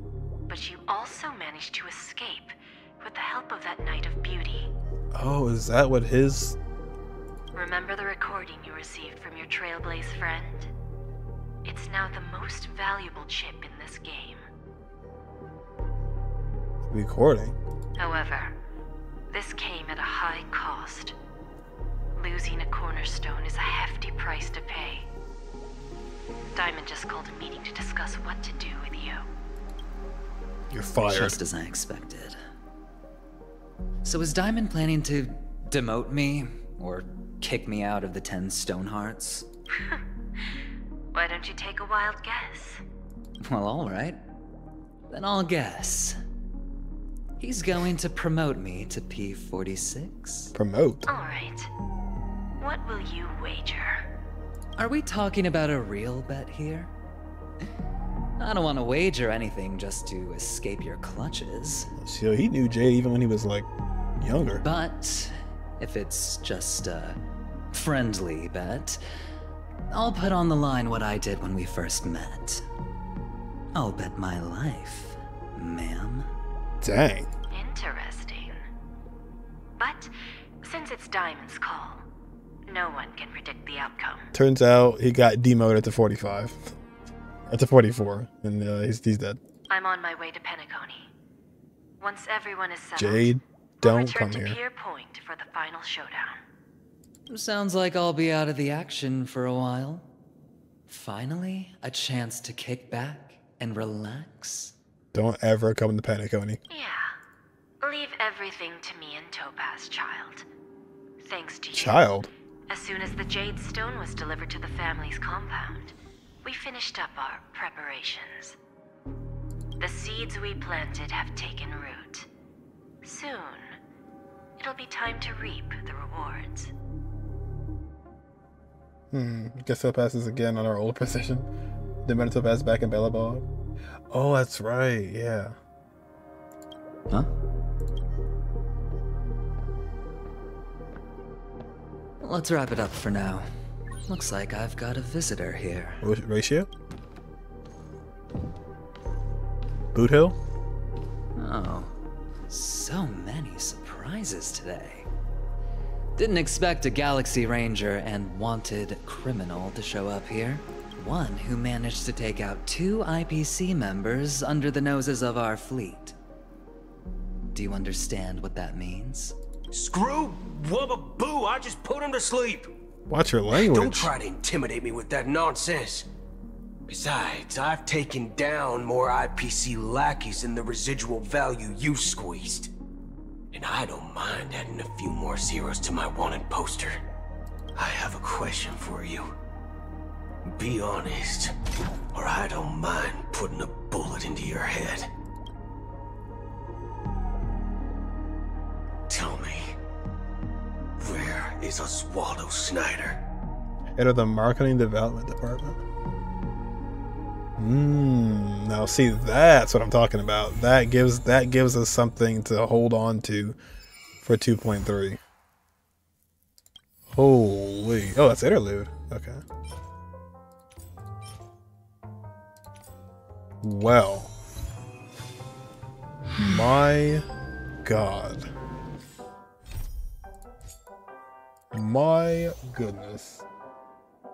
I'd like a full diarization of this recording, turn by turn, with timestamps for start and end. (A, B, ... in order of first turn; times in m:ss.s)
0:00.5-0:04.7 A
0:05.1-0:06.6 B
0:07.5-0:10.7 A
0:11.6-0:14.4 A
0:16.8-0:17.6 B
0:18.0-0:18.5 A
0:19.3-0:21.1 A
0:22.2-0:25.1 A
0:26.5-0:29.2 A
0:30.7-0:31.4 B
0:31.1-0:32.4 C
0:34.0-0:39.4 C
0:41.1-0:42.8 A
0:43.4-0:44.2 C
0:45.1-0:46.1 C
0:47.4-0:50.5 C
0:50.5-0:51.0 B
0:51.1-0:51.7 A
0:52.6-0:54.0 A
0:54.8-0:56.9 C
0:58.4-1:01.9 C
1:02.0-1:03.7 B
1:04.2-1:04.6 B
1:04.6-1:07.2 C
1:07.7-1:09.0 C
1:09.9-1:12.6 C
1:13.7-1:16.3 C
1:16.8-1:17.3 B
1:17.5-1:18.5 A
1:19.8-1:20.1 A
1:20.6-1:22.0 A
1:22.7-1:24.3 A
1:24.3-1:26.7 B
1:27.5-1:29.4 B
1:29.7-1:31.1 A
1:32.0-1:36.4 A
1:33.0-1:34.6 B
1:37.3-1:40.1 C
1:40.9-1:44.7 C
1:45.1-1:46.6 B
1:46.7-1:47.1 A
1:47.8-1:50.4 A
1:51.2-1:52.0 A
1:51.7-1:52.3 B
1:52.7-1:58.6 A
1:59.8-2:02.3 A
2:03.0-2:03.8 A
2:04.6-2:06.7 A
2:09.1-2:11.5 B
2:12.0-2:13.4 B
2:14.1-2:15.6 B
2:22.2-2:23.5 C
2:24.1-2:26.0 C
2:26.0-2:26.7 B
2:29.9-2:30.4 B
2:31.4-2:31.9 C
2:32.5-2:35.1 C
2:36.2-2:46.1 C
2:47.5-2:49.3 C
2:49.7-2:52.7 D
2:53.1-2:54.1 B
2:53.6-2:56.0 D
2:56.9-3:02.7 D
3:03.5-3:07.0 D
3:07.8-3:09.3 D
3:10.5-3:11.5 D
3:12.1-3:15.1 D
3:19.1-3:19.8 D
3:21.0-3:23.2 D
3:23.9-3:25.8 B
3:27.6-3:33.6 B
3:34.2-3:35.2 B
3:37.1-3:39.4 B
3:43.6-3:44.3 B
3:46.4-3:47.2 B
3:47.8-3:48.5 B
3:51.7-3:53.4 B